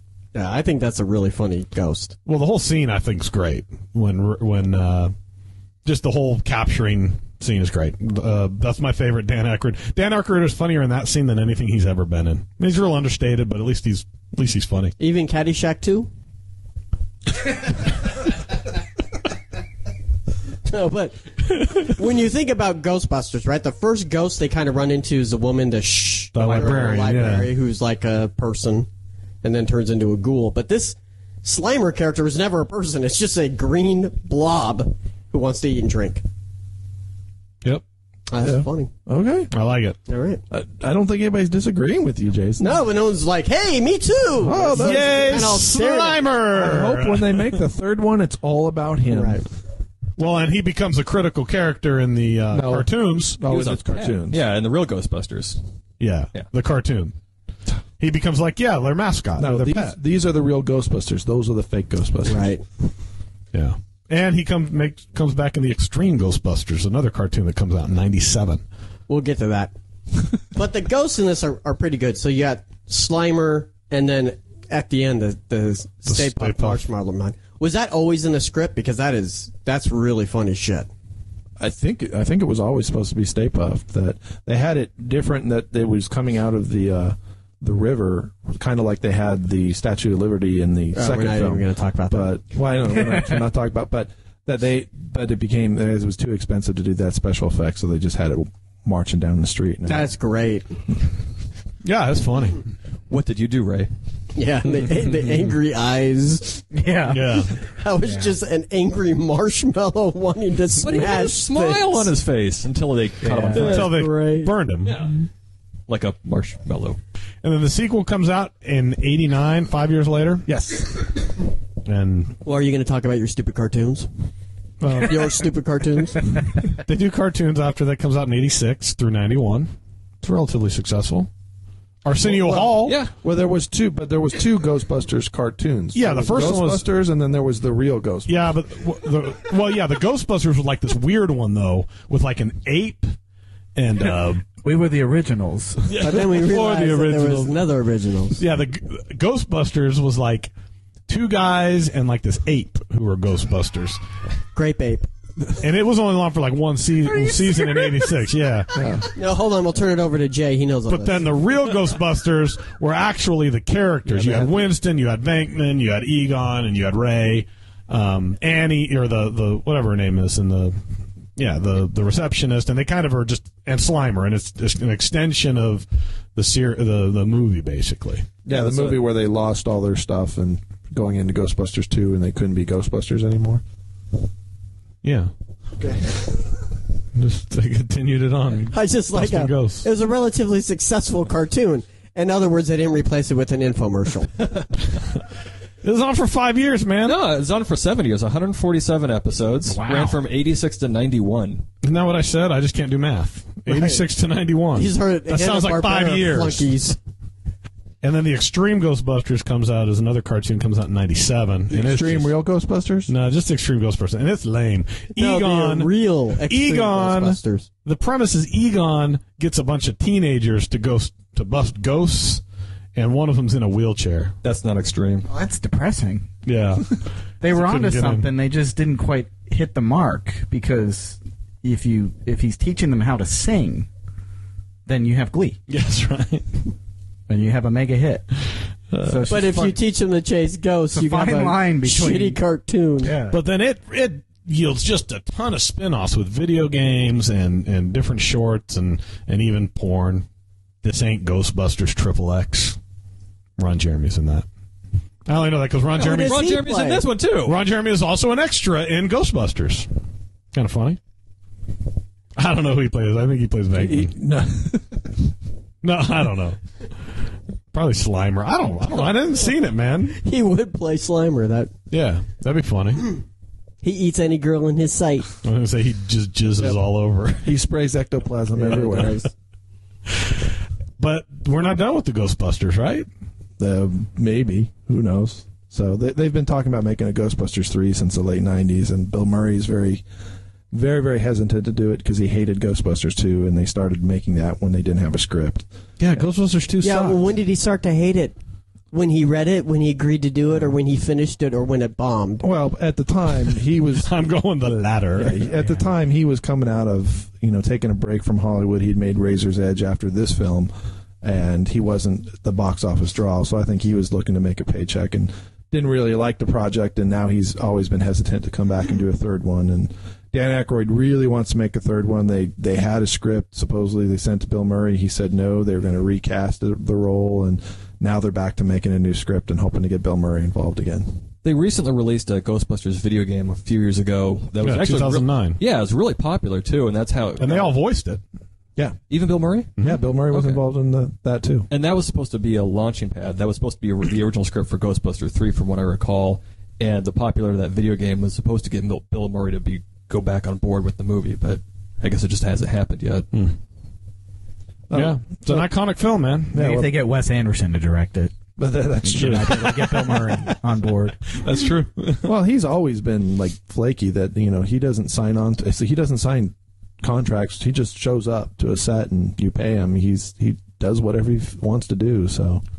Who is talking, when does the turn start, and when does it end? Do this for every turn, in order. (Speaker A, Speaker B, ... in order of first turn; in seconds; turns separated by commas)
Speaker A: 0.3-2.1, Speaker B: 2.2-5.1, Speaker B: 5.8-14.9, Speaker A: 15.0-16.1, Speaker A: 20.6-28.9, Speaker B: 26.3-27.5, Speaker C: 26.4-27.1, Speaker A: 29.4-36.2, Speaker A: 38.3-38.9, Speaker D: 38.4-39.5, Speaker B: 39.5-40.0, Speaker A: 40.1-40.4, Speaker D: 40.5-42.8, Speaker A: 42.6-46.2, Speaker D: 44.4-45.6, Speaker B: 44.8-47.6, Speaker D: 46.5-49.5, Speaker A: 49.1-49.5, Speaker B: 50.2-53.4, Speaker D: 52.5-54.4, Speaker E: 53.4-55.7, Speaker B: 56.0-57.1, Speaker B: 58.0-60.0, Speaker D: 59.4-62.6, Speaker A: 62.2-62.6, Speaker B: 63.5-68.6, Speaker A: 69.1-69.7, Speaker A: 70.3-80.9, Speaker B: 76.1-76.8, Speaker D: 81.6-100.1, Speaker A: 90.9-92.3, Speaker A: 99.9-100.7, Speaker B: 101.8-102.7, Speaker E: 103.1-103.9, Speaker A: 104.3-106.7, Speaker C: 106.7-108.3, Speaker B: 107.1-107.5, Speaker A: 107.5-112.1, Speaker E: 110.8-114.1, Speaker C: 113.2-113.7, Speaker A: 113.5-114.5, Speaker B: 113.5-114.9, Speaker E: 114.8-115.2, Speaker E: 115.9-117.0, Speaker B: 117.4-120.5, Speaker D: 120.5-121.2, Speaker B: 121.8-122.4, Speaker A: 122.4-124.1, Speaker B: 124.8-125.5, Speaker A: 125.0-126.2, Speaker B: 126.7-131.3, Speaker B: 132.0-132.9, Speaker D: 132.2-138.4, Speaker E: 132.8-133.1, Speaker B: 135.9-136.9, Speaker B: 138.3-143.2, Speaker B: 143.8-144.4, Speaker C: 144.6-145.9, Speaker B: 145.9-147.6, Speaker A: 146.1-148.4, Speaker B: 148.4-150.5, Speaker B: 151.1-154.0, Speaker A: 154.6-155.1, Speaker B: 155.6-158.7, Speaker D: 158.7-159.1, Speaker A: 159.1-161.3, Speaker B: 160.9-170.8, Speaker D: 164.1-164.7, Speaker B: 171.4-178.3, Speaker D: 178.4-183.6, Speaker E: 178.6-178.8, Speaker B: 185.0-185.3, Speaker D: 185.8-186.2, Speaker B: 187.1-189.9, Speaker A: 188.7-194.3, Speaker B: 195.8-197.2, Speaker E: 197.0-201.6, Speaker C: 199.8-200.2, Speaker B: 201.8-206.8, Speaker A: 203.7-204.0, Speaker A: 204.7-207.0, Speaker B: 208.0-212.3, Speaker D: 211.7-213.1, Speaker B: 213.1-222.4, Speaker A: 215.1-217.7, Speaker B: 222.9-224.4, Speaker E: 224.4-225.3, Speaker C: 225.3-226.3, Speaker B: 226.4-228.3, Speaker C: 227.4-233.9, Speaker C: 234.9-235.6, Speaker B: 235.7-236.4, Speaker C: 237.3-238.3, Speaker B: 238.9-239.2, Speaker C: 239.0-239.8, Speaker A: 239.3-243.1, Speaker C: 240.9-242.4, Speaker C: 243.0-243.4, Speaker B: 243.3-250.3, Speaker B: 250.8-252.8, Speaker B: 253.6-254.4, Speaker B: 255.3-256.5, Speaker E: 255.9-257.6, Speaker A: 256.0-257.1, Speaker B: 257.4-259.9, Speaker B: 260.5-261.0, Speaker B: 262.4-264.1, Speaker D: 263.7-265.1, Speaker B: 265.8-267.0, Speaker B: 267.7-270.2, Speaker A: 270.2-271.7, Speaker B: 271.9-273.1, Speaker A: 273.8-275.3, Speaker B: 275.4-277.5, Speaker D: 277.4-279.2, Speaker A: 278.6-279.3, Speaker B: 281.0-283.1, Speaker D: 283.6-290.1, Speaker D: 290.7-295.7, Speaker B: 296.0-297.2, Speaker A: 296.8-298.4, Speaker A: 298.9-302.4, Speaker D: 302.4-304.1, Speaker B: 304.0-305.4, Speaker D: 305.1-331.2, Speaker E: 331.4-337.7, Speaker B: 334.6-335.6, Speaker B: 337.4-338.2, Speaker E: 339.1-339.7, Speaker D: 339.8-341.7, Speaker E: 340.3-340.6, Speaker E: 341.7-353.3, Speaker D: 354.9-355.7, Speaker B: 354.9-356.5, Speaker D: 356.5-356.9, Speaker C: 356.5-358.4, Speaker D: 358.6-360.1, Speaker C: 359.0-361.4, Speaker B: 359.2-360.1, Speaker B: 361.4-362.3, Speaker D: 362.2-372.6